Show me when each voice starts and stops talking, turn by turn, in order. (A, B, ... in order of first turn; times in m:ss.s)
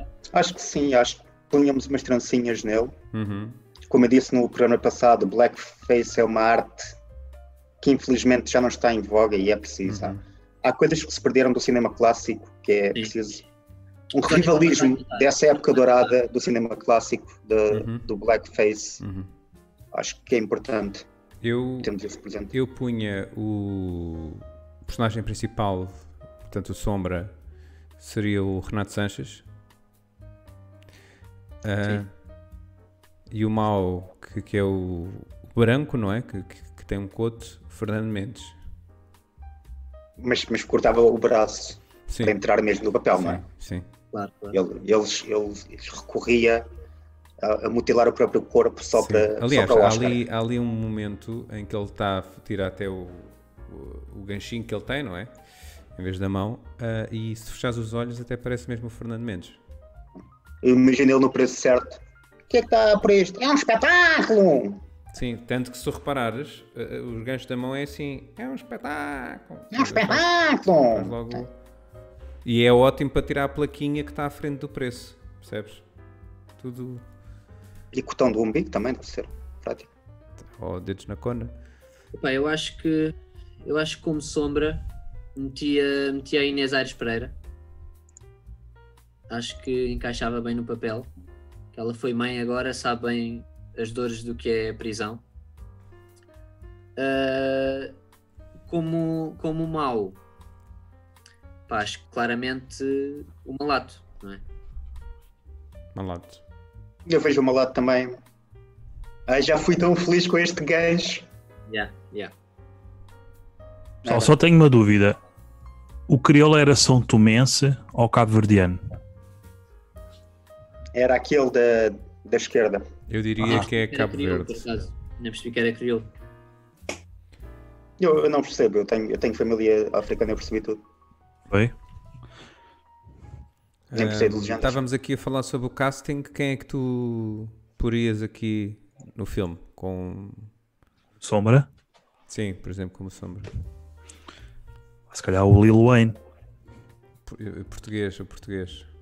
0:00.3-0:02.9 A
0:03.1-0:03.6 B
0:03.9-0:07.0 A
0:07.8-0:13.4 A
0:09.8-0:10.2 B
0:14.1-0:19.0 A
0:14.3-0:16.1 C
0:17.7-0:18.0 B
0:19.0-0:19.3 B
0:19.9-0:21.1 A
0:21.4-0:21.9 B
0:21.8-0:22.5 A
0:22.5-0:27.3 B
0:28.0-0:29.4 B
0:31.6-0:32.1 B
0:33.3-0:38.6 B
0:40.2-0:43.4 A
0:42.1-0:42.4 B
0:43.2-0:43.8 B
0:44.1-0:44.6 C
0:44.5-0:46.6 A
0:47.4-0:50.2 A
0:48.9-0:55.3 B
0:56.0-0:59.6 B
1:00.6-1:04.8 A
1:05.1-1:10.3 B
1:09.7-1:11.4 A
1:10.9-1:11.5 B
1:12.4-1:15.8 B
1:16.6-1:17.0 B
1:17.9-1:19.9 A
1:20.5-1:21.5 B
1:22.1-1:27.4 C
1:29.3-1:31.1 C
1:31.7-1:35.2 C
1:37.0-1:38.0 C
1:38.7-1:40.2 C
1:41.7-1:44.4 C
1:45.9-1:46.4 B
1:47.0-1:48.2 A
1:49.3-1:51.2 A
1:51.7-1:52.3 C
1:54.0-1:54.4 A
1:54.0-1:55.2 D
1:56.1-1:58.8 D
2:00.9-2:02.8 A
2:03.1-2:04.7 B
2:03.4-2:03.7 D
2:03.5-2:06.1 C
2:08.0-2:10.8 A
2:13.9-2:20.5 B
2:13.9-2:14.8 A
2:21.2-2:21.7 D
2:22.3-2:23.5 B
2:25.1-2:26.2 D
2:27.2-2:28.9 B